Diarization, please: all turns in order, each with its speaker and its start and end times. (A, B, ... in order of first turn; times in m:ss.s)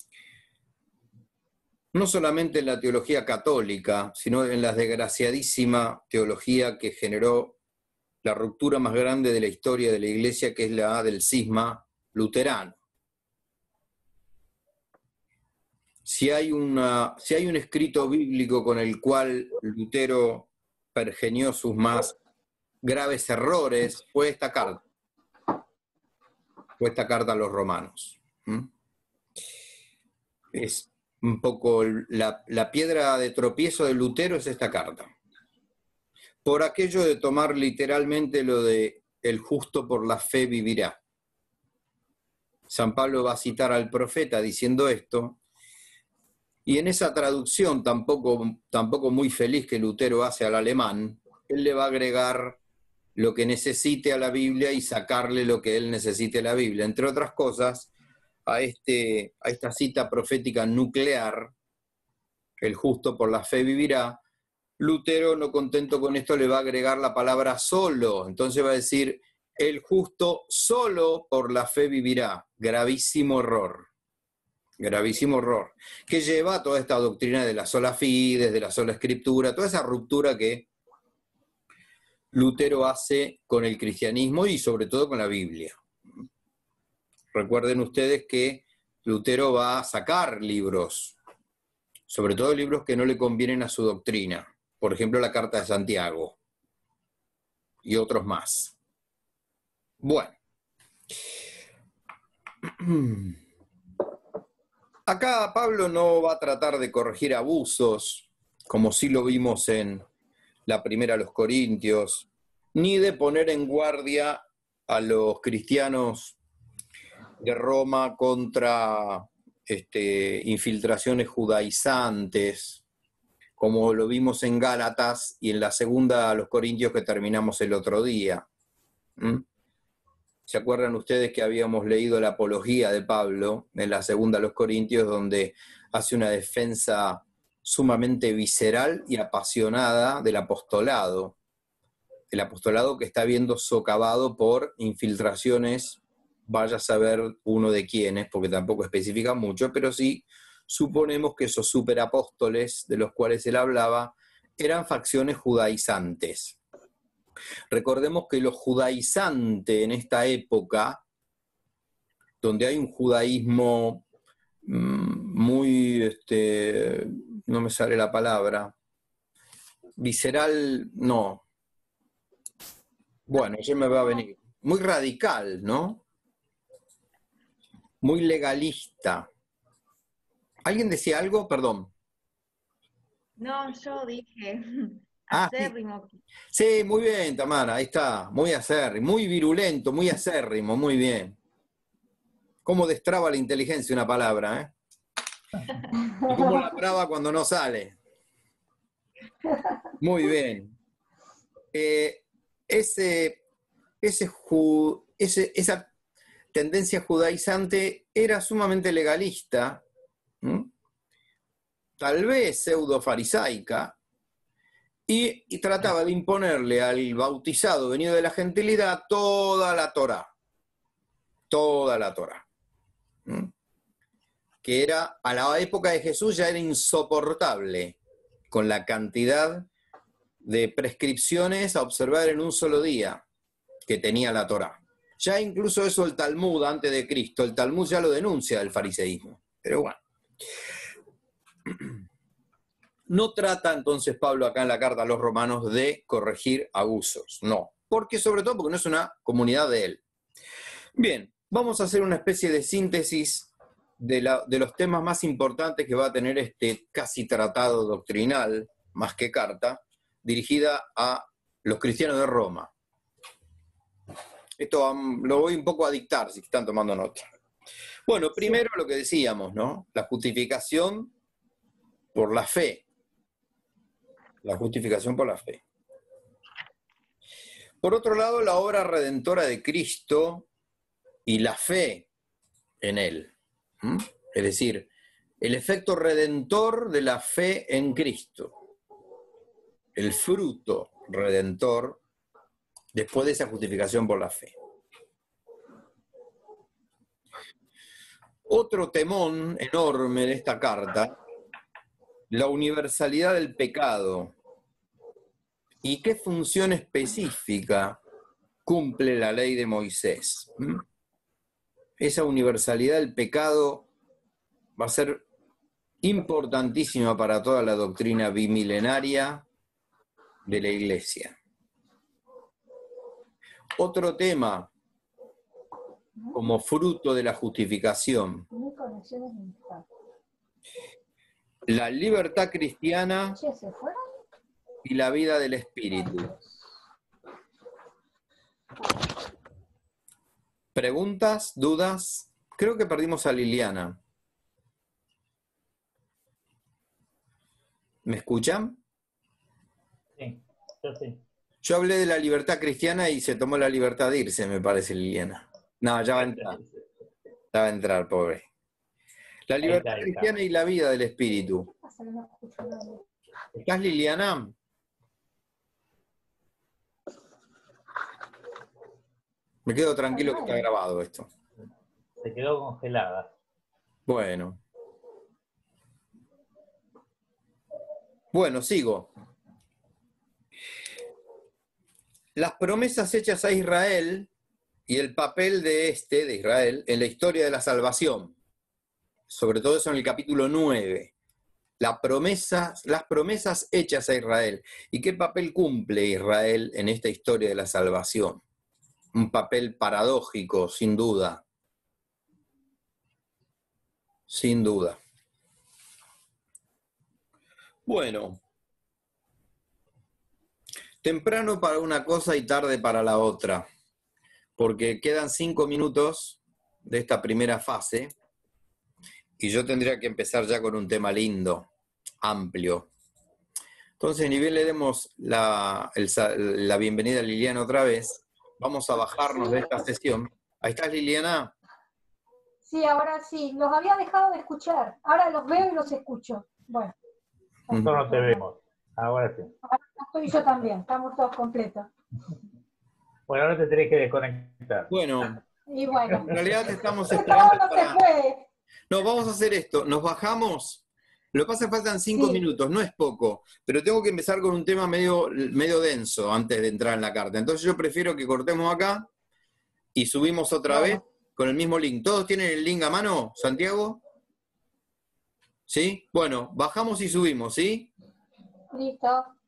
0:01.9-0:07.6 A
0:08.2-0:12.8 A
0:16.0-0:22.2 A
0:22.8-0:24.8 A
0:26.8-0:28.7 A
0:30.5-0:35.1 A
0:36.4-0:41.0 A
0:42.7-0:45.4 A
0:46.7-0:52.6 A
0:53.2-0:57.9 A
0:58.5-1:01.5 A
1:02.6-1:04.2 A
1:04.8-1:13.9 A
1:14.8-1:20.7 A
1:22.3-1:25.8 A
1:27.3-1:31.2 A
1:32.1-1:36.4 A
1:37.8-1:38.7 A
1:40.0-1:40.4 A
1:42.8-1:43.4 A
1:45.1-1:50.0 A
1:50.7-1:56.4 A
1:57.4-2:02.8 A
2:03.6-2:08.5 A
2:09.2-2:09.4 A
2:10.5-2:21.4 A
2:22.3-2:36.6 A
2:37.7-2:41.0 A
2:42.4-2:44.0 A
2:44.6-2:48.7 A
2:50.0-2:51.4 A
2:53.3-2:56.0 A
2:58.0-2:59.3 A
3:00.6-3:01.9 A
3:03.4-3:06.2 B
3:05.3-3:05.7 A
3:06.5-3:11.4 A
3:12.6-3:14.7 A
3:16.2-3:18.0 A
3:20.0-3:20.8 A
3:21.7-3:23.4 A
3:24.0-3:25.9 A
3:26.5-3:29.8 A
3:30.4-3:30.7 A
3:32.0-3:34.0 A
3:35.1-3:40.3 A
3:41.5-3:42.4 A
3:44.6-3:48.0 A
3:48.5-3:49.7 A
3:50.4-3:53.2 A
3:53.9-4:00.0 A
4:03.1-4:10.0 A
4:11.0-4:22.7 A
4:24.6-4:27.3 A
4:28.1-4:31.1 A
4:32.1-4:32.8 A
4:34.4-4:35.6 A
4:37.8-4:40.5 A
4:41.3-4:42.1 A
4:42.8-4:44.9 A
4:45.4-4:48.6 A
4:50.0-4:52.0 A
4:52.9-4:54.5 A
4:58.5-5:01.2 A
5:02.3-5:04.3 A
5:05.8-5:08.0 A
5:08.7-5:10.8 A
5:12.0-5:13.9 A
5:14.8-5:15.2 A
5:16.0-5:19.4 A
5:20.5-5:21.4 A
5:23.8-5:24.7 A
5:26.3-5:28.4 A
5:28.5-5:29.9 C
5:31.7-5:33.4 A
5:33.3-5:34.0 C
5:34.8-5:36.3 A
5:40.8-5:44.0 A
5:48.1-5:48.8 A
5:50.2-5:51.2 D
5:51.6-5:56.6 A
5:56.2-5:56.7 D
5:57.5-5:58.5 A
5:59.5-6:01.7 A
5:59.6-6:00.3 D
6:01.8-6:03.0 C
6:03.6-6:04.5 A
6:09.7-6:11.3 A
6:10.1-6:10.7 C
6:12.2-6:13.3 D
6:14.1-6:14.6 A
6:18.3-6:19.1 A
6:22.4-6:24.3 A
6:24.9-6:28.4 A
6:29.3-6:31.1 A
6:31.8-6:38.4 A
6:39.1-6:41.4 A
6:44.3-6:45.0 A
6:47.9-6:48.4 A
6:51.0-6:53.7 A
6:54.6-6:58.1 A
6:59.4-7:01.7 A
7:02.2-7:02.9 A
7:04.0-7:11.5 A
7:09.2-7:09.7 C
7:12.6-7:16.9 C
7:17.7-7:18.0 A
7:17.7-7:18.4 C
7:17.7-7:19.5 D
7:19.6-7:21.9 C
7:23.3-7:24.9 D
7:24.9-7:25.4 A
7:25.7-7:28.5 C
7:26.2-7:28.0 A
7:28.9-7:39.1 A
7:32.2-7:32.4 C
7:40.0-7:44.0 A
7:40.7-7:41.0 C
7:45.7-7:47.9 A
7:48.7-7:49.3 C